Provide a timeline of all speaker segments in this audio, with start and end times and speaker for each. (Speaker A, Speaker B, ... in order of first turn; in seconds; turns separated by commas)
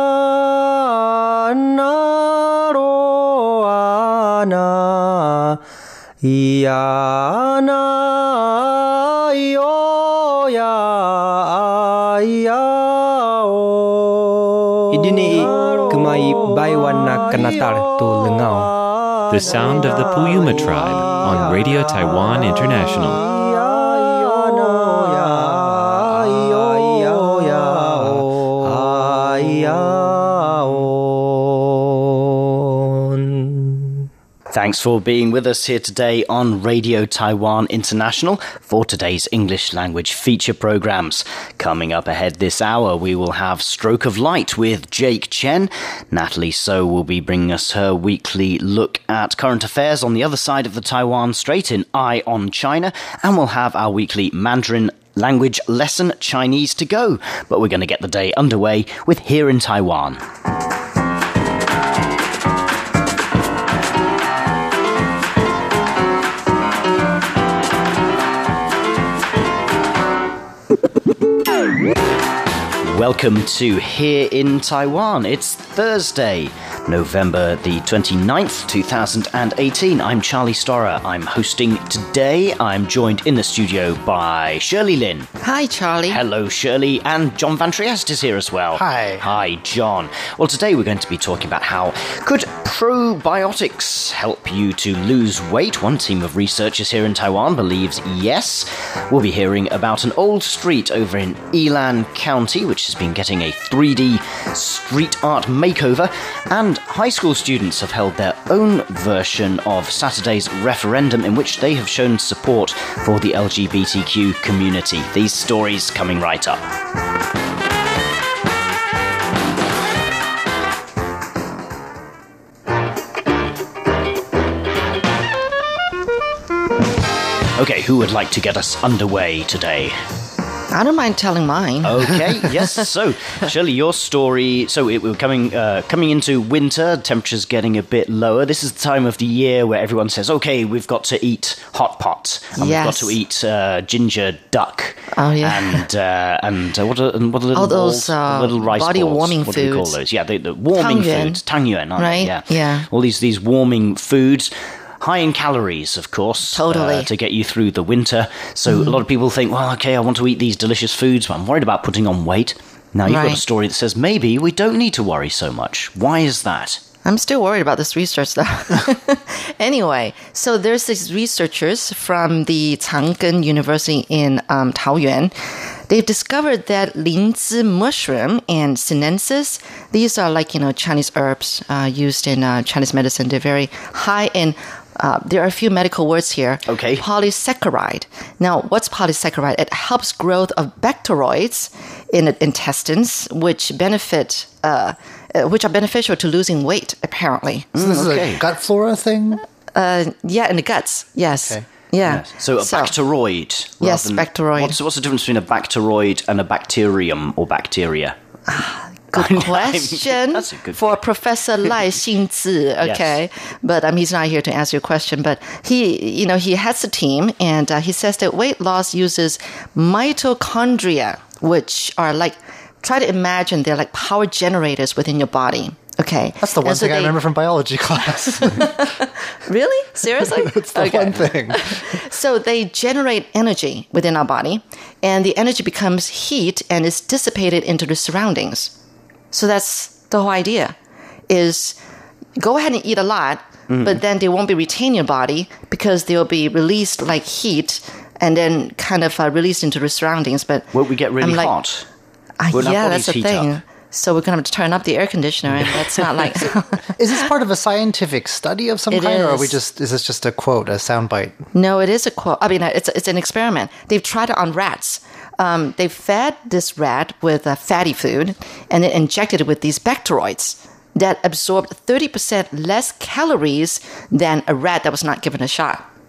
Speaker A: 0.6-5.6, Speaker A: 6.2-14.2, Speaker A: 14.9-18.8, Speaker B: 19.3-23.2, Speaker A: 21.1-21.5, Speaker A: 23.5-31.1, Speaker A: 32.9-33.9, Speaker C: 34.5-60.2, Speaker C: 72.8-85.3, Speaker D: 85.4-86.2, Speaker C: 86.1-116.6, Speaker E: 88.7-89.2, Speaker C: 127.6-130.0, Speaker D: 130.7-132.8, Speaker C: 131.8-166.8, Speaker D: 142.5-143.1, Speaker D: 145.1-145.8, Speaker D: 147.5-149.9, Speaker D: 150.7-151.4, Speaker D: 152.0-152.9, Speaker D: 156.5-157.1, Speaker D: 163.1-163.4, Speaker D: 167.0-175.3, Speaker D: 175.9-197.7, Speaker C: 186.7-187.0, Speaker C: 197.7-198.4, Speaker E: 197.8-199.4, Speaker D: 199.7-202.9, Speaker C: 202.0-208.2, Speaker D: 203.8-204.8, Speaker D: 208.5-227.2, Speaker C: 209.1-211.0, Speaker C: 212.8-213.2, Speaker E: 226.4-228.9, Speaker D: 228.4-238.7, Speaker E: 230.2-231.8, Speaker D: 239.3-240.8, Speaker D: 241.3-241.8, Speaker D: 242.4-250.7, Speaker C: 243.7-244.0, Speaker C: 250.7-251.8, Speaker D: 251.2-251.6, Speaker D: 252.4-256.9, Speaker C: 252.5-253.5, Speaker E: 257.0-261.4, Speaker D: 258.9-259.6, Speaker D: 261.5-275.8